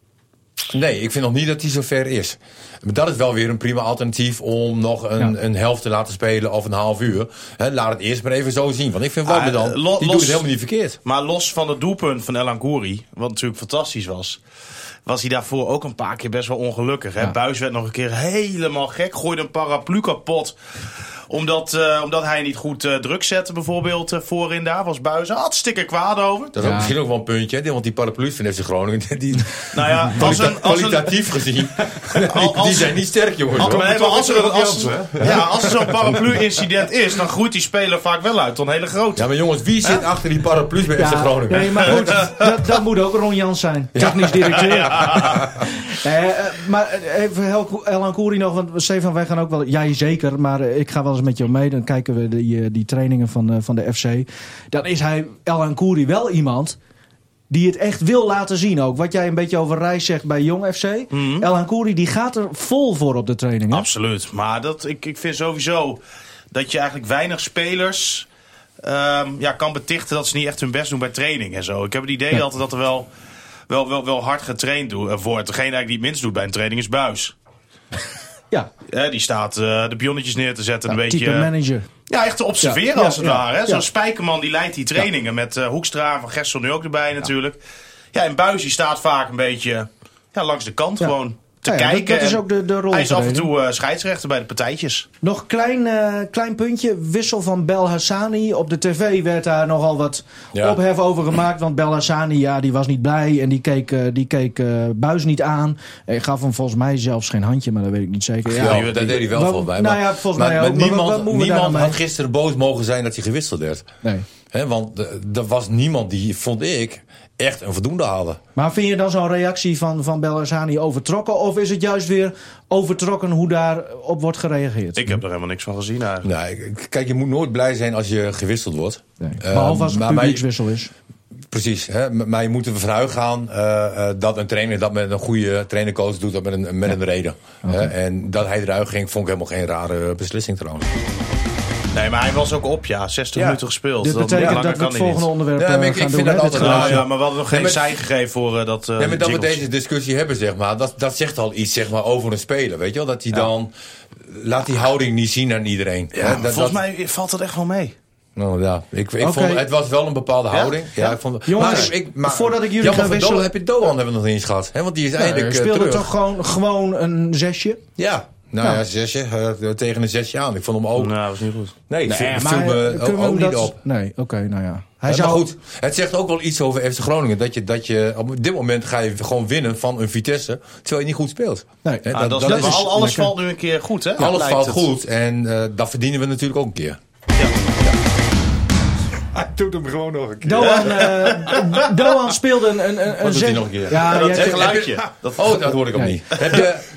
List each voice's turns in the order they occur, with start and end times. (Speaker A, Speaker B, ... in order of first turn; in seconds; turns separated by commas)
Speaker A: 0.7-11.0, Speaker B: 9.3-10.5, Speaker B: 11.1-14.4, Speaker B: 15.1-20.6, Speaker B: 21.3-26.6, Speaker A: 26.5-33.9, Speaker C: 26.6-26.9, Speaker B: 29.7-31.1, Speaker B: 32.2-33.0, Speaker D: 33.5-36.2, Speaker B: 33.6-39.3, Speaker A: 39.2-42.3, Speaker C: 41.0-56.8, Speaker B: 41.9-42.3, Speaker A: 44.0-45.6, Speaker C: 57.5-63.9, Speaker B: 61.1-61.5, Speaker B: 63.7-66.0, Speaker B: 66.5-68.3, Speaker B: 68.8-73.1, Speaker B: 73.7-77.3, Speaker B: 78.9-81.5, Speaker C: 80.9-81.9, Speaker B: 82.1-87.6, Speaker C: 82.6-83.8, Speaker B: 88.1-95.1, Speaker C: 91.7-93.5, Speaker C: 95.2-112.0, Speaker A: 100.5-100.8, Speaker A: 108.5-113.9, Speaker B: 108.5-109.2, Speaker A: 114.5-118.4, Speaker C: 118.6-125.1, Speaker B: 125.0-126.3, Speaker A: 126.2-130.4, Speaker C: 129.2-130.9, Speaker A: 131.5-140.9, Speaker C: 137.6-137.9, Speaker B: 141.9-145.3, Speaker A: 143.3-143.6, Speaker C: 144.0-147.0, Speaker A: 144.3-144.6, Speaker A: 145.6-147.9, Speaker B: 146.6-149.6, Speaker A: 149.0-156.8, Speaker B: 156.1-157.9, Speaker A: 158.4-166.1, Speaker C: 159.2-159.7, Speaker B: 160.5-161.2, Speaker C: 161.5-163.5, Speaker C: 165.2-167.8, Speaker A: 168.0-171.2, Speaker B: 171.0-171.8, Speaker A: 171.9-173.8, Speaker C: 172.1-175.4, Speaker A: 175.1-182.9, Speaker C: 181.8-183.3, Speaker B: 182.1-184.9, Speaker A: 184.2-187.0, Speaker D: 189.3-191.3, Speaker C: 190.4-194.8, Speaker B: 190.6-191.7, Speaker A: 193.1-196.8, Speaker B: 194.0-195.7, Speaker B: 196.3-196.7